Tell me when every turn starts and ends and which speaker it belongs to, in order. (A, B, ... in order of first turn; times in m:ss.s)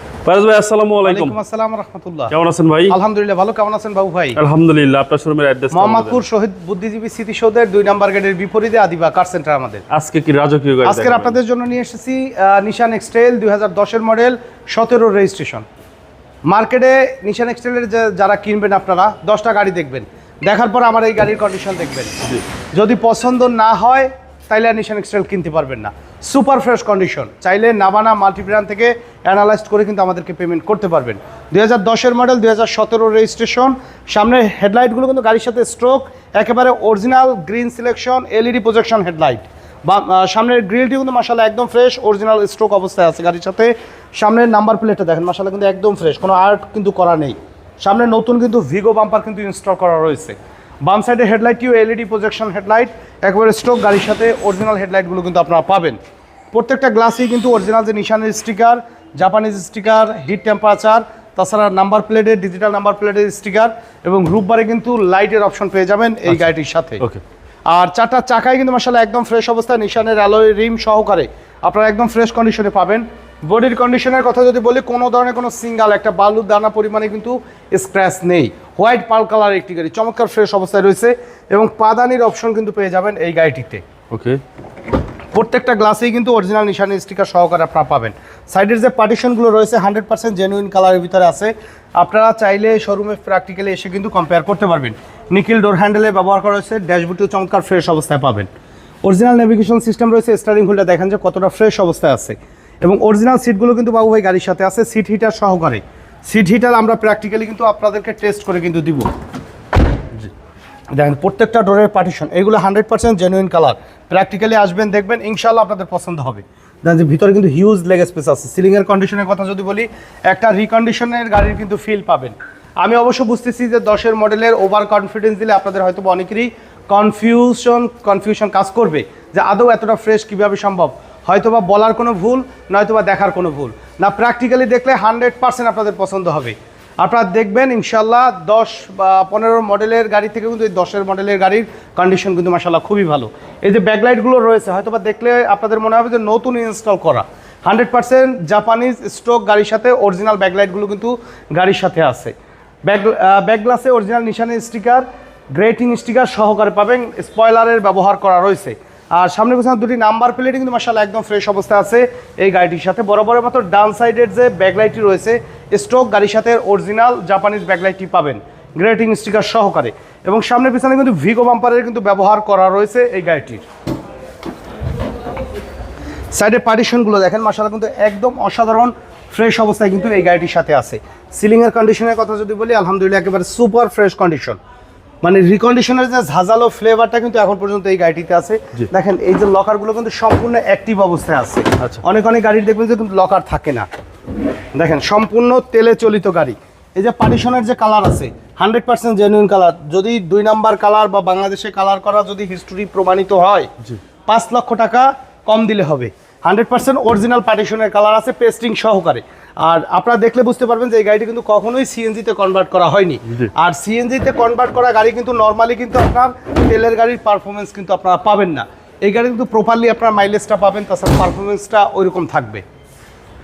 0:00.2-0:01.3 A
0:01.0-0:02.3 B
0:02.3-0:03.0 A
0:02.9-0:04.4 B
0:04.4-0:06.2 A
0:05.7-0:09.8 B
0:09.9-0:11.3 A
0:10.8-0:15.6 B
0:16.5-0:56.0 B
0:56.5-1:07.0 B
1:07.7-1:23.8 B
1:24.1-1:24.4 A
1:25.3-1:38.5 B
1:39.0-1:49.1 B
1:50.9-2:32.3 B
2:32.9-2:53.6 B
2:56.3-3:04.6 B
3:05.2-3:13.9 B
3:14.8-3:23.7 B
3:24.3-3:42.6 B